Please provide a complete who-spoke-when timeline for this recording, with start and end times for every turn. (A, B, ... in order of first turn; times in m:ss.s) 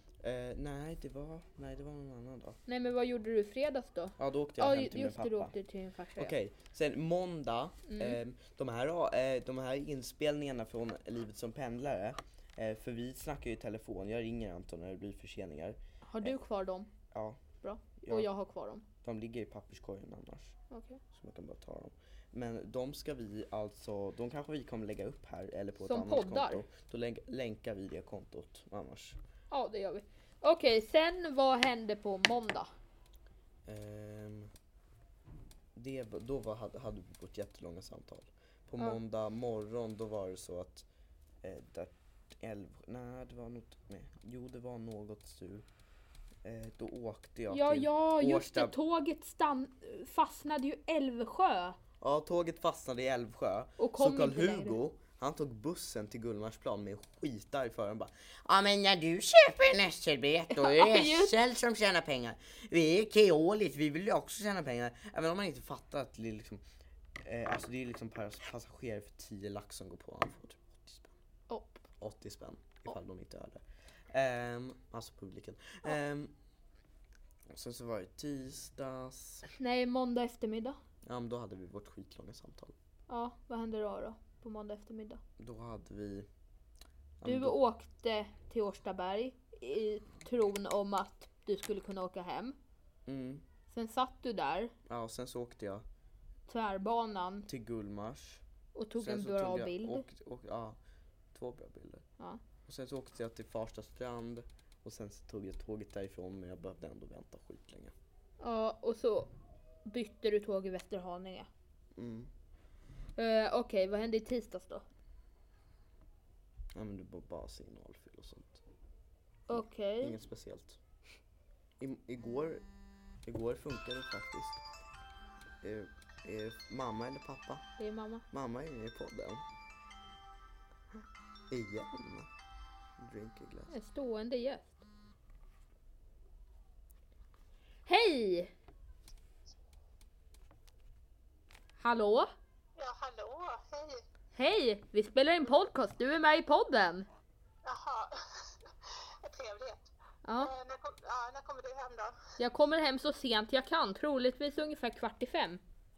0:00.2-0:02.6 A
0:02.7-0:06.3 B
0:04.2-0:05.5 A
0:06.2-0:16.3 A
0:07.9-0:08.2 B
0:16.0-0:16.9 B
0:17.1-0:17.4 A
0:17.6-0:18.8 B
0:18.0-0:18.3 A
0:19.0-0:20.6 A
0:20.7-0:21.0 B
0:21.1-0:29.2 A
0:25.8-0:26.6 B
0:29.5-0:32.7 B
0:33.6-0:34.5 A
0:35.7-0:40.8 A
0:41.4-0:45.6 A
0:46.4-0:48.8 A
0:47.5-0:51.8 B
0:52.0-1:06.6 A
0:53.8-0:54.8 B
1:00.5-1:01.3 B
1:07.2-1:11.1 A
1:11.5-1:11.8 B
1:12.0-1:16.3 A
1:17.5-1:19.5 A
1:19.5-1:20.8 B
1:21.0-1:22.7 A
1:23.1-1:25.2 B
1:25.4-1:26.3 A
1:27.2-1:27.6 A
1:27.2-1:32.6 B
1:33.0-1:33.4 A
1:33.7-1:34.7 B
1:34.9-1:35.8 A
1:36.5-1:37.5 B
1:37.4-1:38.4 A
1:38.7-1:40.0 B
1:39.0-1:40.8 A
1:41.3-1:42.0 A
1:42.6-1:47.9 A
1:48.4-1:49.3 B
1:49.8-1:51.5 B
1:52.0-1:52.3 A
1:53.2-1:54.8 B
1:56.7-1:58.6 A
1:59.5-2:00.2 B
1:59.5-2:00.8 A
2:01.8-2:02.6 A
2:03.2-2:04.6 A
2:05.6-2:07.6 A
2:07.8-2:08.2 B
2:08.3-2:09.4 A
2:11.5-2:12.3 A
2:13.0-2:13.7 A
2:13.7-2:14.8 B
2:17.8-2:18.5 B
2:21.8-2:22.3 B
2:22.8-2:24.0 C
2:24.4-2:27.1 B
2:27.6-2:29.8 C
2:30.2-2:30.5 B
2:30.4-2:32.2 C
2:32.4-2:35.6 B